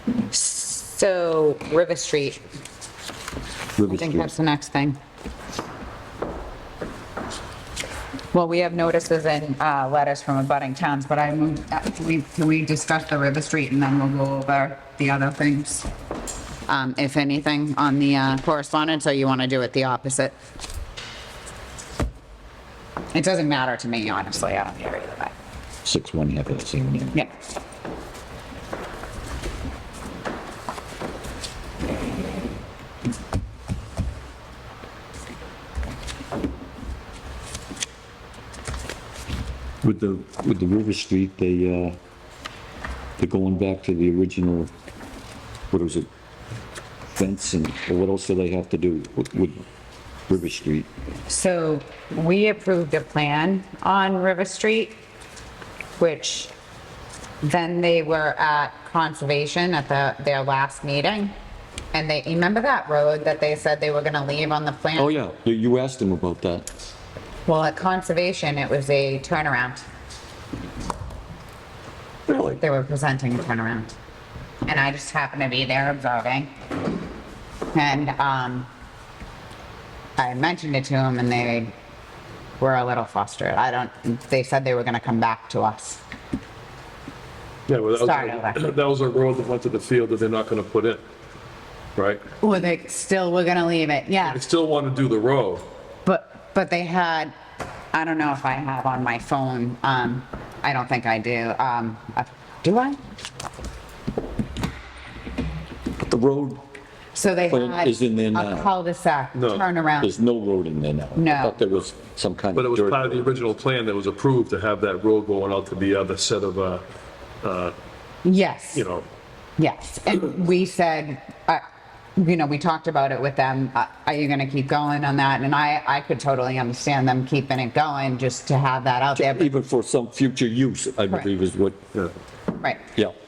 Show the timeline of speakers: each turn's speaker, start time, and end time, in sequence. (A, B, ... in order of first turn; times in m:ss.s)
0:00.3-0:02.4 A
0:03.8-0:04.3 B
0:03.9-0:05.0 A
0:08.3-0:15.9 A
0:16.7-0:20.4 A
0:23.1-0:25.3 A
0:25.8-0:27.2 B
0:39.8-0:42.0 B
0:43.2-0:44.7 B
0:45.7-0:46.1 B
0:47.1-0:49.6 B
0:50.3-0:50.9 B
0:51.3-0:55.0 A
0:56.0-0:56.5 A
0:57.4-1:01.3 A
1:01.9-1:05.2 A
1:05.0-1:06.7 B
1:07.5-1:09.8 A
1:12.3-1:12.6 B
1:12.6-1:13.9 A
1:14.7-1:16.5 A
1:17.7-1:18.7 A
1:20.2-1:21.7 A
1:22.6-1:26.0 A
1:27.7-1:31.0 C
1:28.0-1:28.6 A
1:32.0-1:32.2 C
1:32.4-1:34.4 A
1:34.3-1:35.6 C
1:36.0-1:37.3 A
1:37.9-1:43.0 A
1:46.0-1:46.6 B
1:47.2-1:50.2 A
1:47.5-1:48.7 B
1:49.4-1:49.6 C
1:50.0-1:53.2 B
1:51.2-1:51.6 A
1:52.6-1:56.8 C
1:57.4-1:57.7 C
1:58.2-1:58.9 A
1:58.7-1:59.1 C
1:59.6-2:01.6 A
2:02.2-2:09.5 A
2:09.2-2:11.8 B